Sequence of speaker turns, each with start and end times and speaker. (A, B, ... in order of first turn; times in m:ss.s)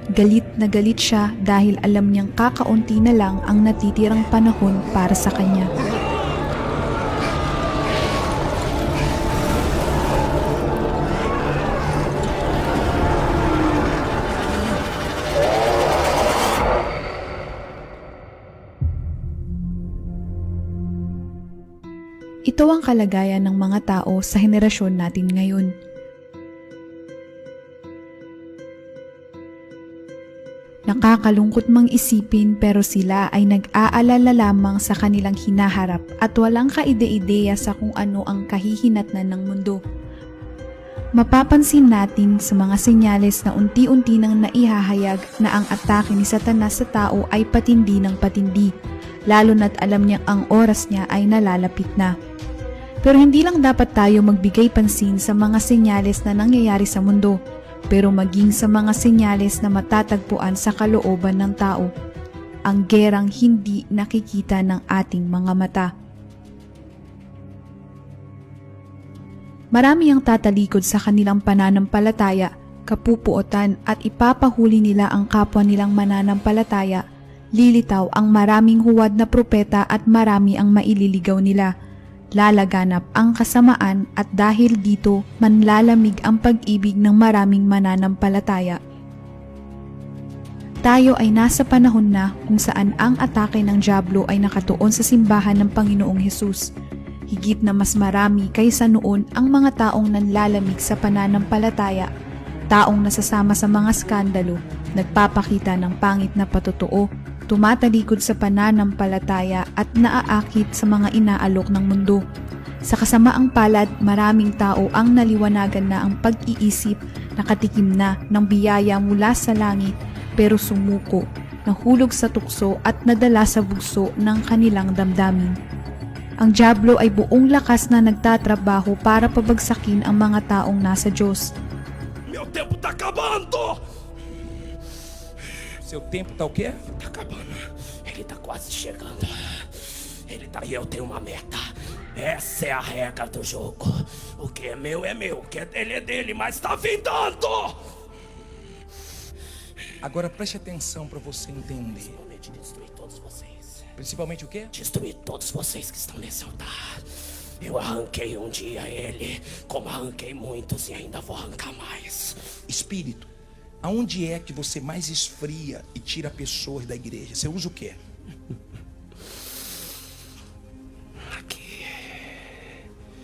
0:00.2-0:05.7 A
0:22.5-0:25.7 A
0:30.9-0:39.8 A
0:41.2-0:48.7 A
0:49.3-0:52.1 A
0:53.0-0:57.4 A
0:57.9-1:01.9 A
1:02.7-1:05.9 A
1:09.7-1:17.0 A
1:17.6-1:21.7 A
1:22.4-1:28.8 A
1:30.9-1:36.6 A
1:37.3-1:42.1 A
1:42.7-1:52.2 A
1:52.9-2:05.6 A
2:06.4-2:11.5 A
2:12.3-2:13.8 B
2:15.8-2:16.8 C
2:17.0-2:27.9 B
2:30.0-2:32.2 C
2:32.0-2:33.9 B
2:34.0-2:34.7 C
2:34.7-2:42.6 B
2:42.7-2:43.3 C
2:43.8-2:48.0 C
2:51.2-2:52.7 B